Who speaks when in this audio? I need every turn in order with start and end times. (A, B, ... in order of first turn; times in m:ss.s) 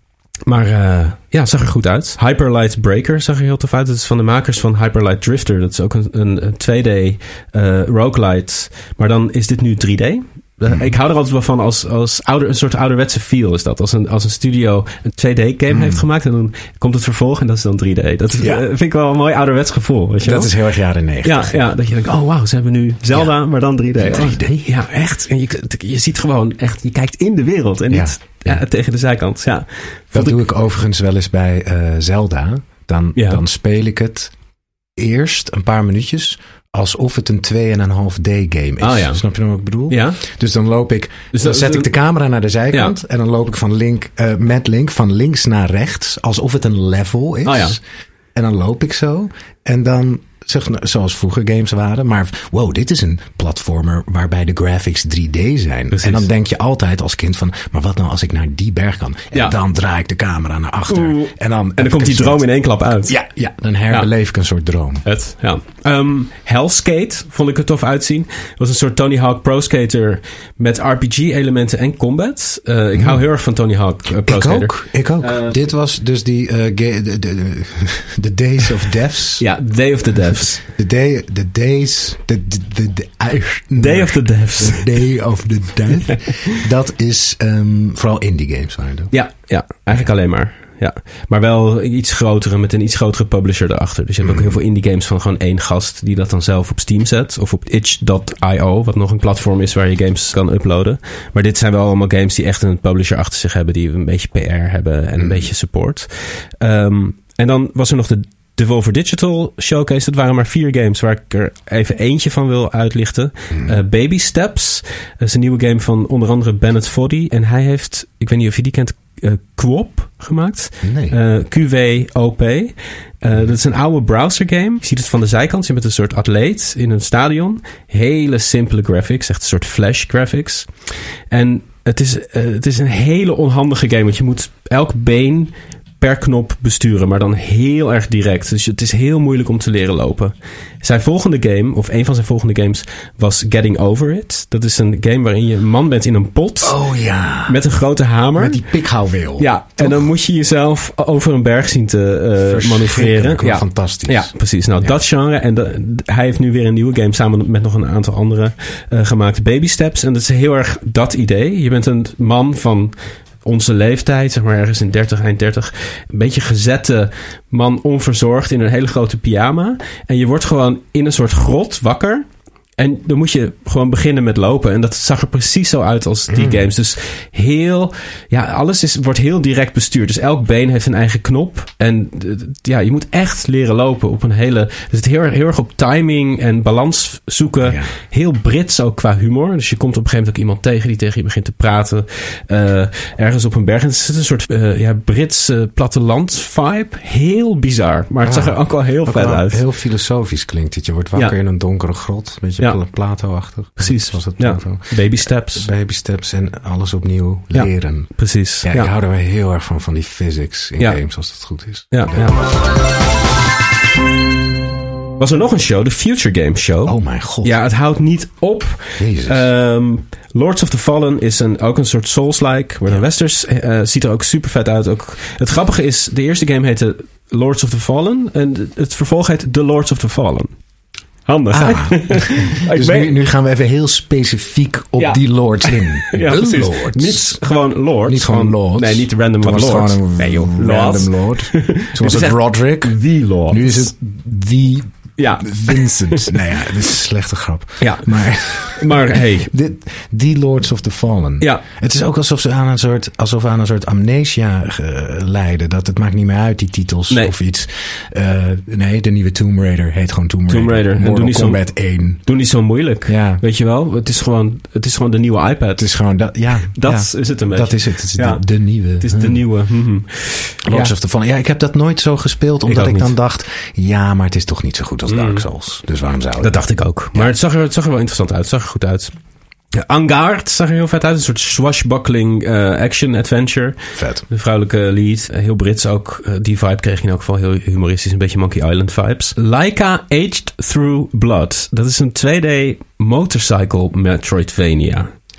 0:00.5-0:20.5 A
0:15.7-0:16.0 B
0:18.4-0:18.6 B
0:20.2-0:21.6 B
0:21.2-0:30.4 A
0:23.1-0:24.7 B
0:27.9-0:28.6 B
0:30.1-0:34.3 B
0:33.1-0:33.4 A
0:35.0-0:47.8 B
0:38.8-0:39.2 A
0:39.9-0:40.2 A
0:41.3-0:41.9 A
0:47.4-0:47.8 A
0:48.3-1:02.5 B
0:55.9-0:56.2 A
1:00.9-1:03.2 A
1:03.0-1:05.0 B
1:05.0-1:15.6 A
1:13.0-1:13.2 B
1:14.2-1:19.5 B
1:19.4-1:20.6 A
1:20.2-1:29.1 B
1:23.8-1:24.9 A
1:29.1-2:26.8 A
1:34.2-1:34.6 B
1:45.2-1:45.5 B
1:53.5-1:53.8 B
2:00.8-2:01.2 B
2:26.6-2:27.6 B
2:27.4-2:28.6 A
2:28.4-2:30.1 B
2:29.4-2:52.2 A
2:32.4-2:35.0 B
2:52.8-3:19.6 A
2:56.3-2:56.6 B
3:07.6-3:07.9 B
3:18.2-3:32.5 B
3:23.8-3:25.7 A
3:27.5-3:28.9 A
3:31.9-3:32.4 A
3:35.2-3:50.5 A
3:36.8-3:37.6 B
3:39.0-3:39.5 B
3:51.2-3:53.2 A
3:51.5-4:22.4 B
3:55.0-4:03.9 A
4:05.2-4:06.3 A
4:07.8-4:09.5 A
4:20.5-4:21.6 A
4:22.2-4:25.9 A
4:23.0-4:23.4 B
4:25.8-4:29.4 B
4:26.6-4:28.4 A
4:29.0-4:30.9 A
4:30.6-4:37.3 B
4:32.7-4:33.1 A
4:35.1-4:35.4 A
4:36.4-4:39.1 A
4:39.8-4:43.8 A
4:43.9-4:44.2 B
4:44.3-4:55.1 A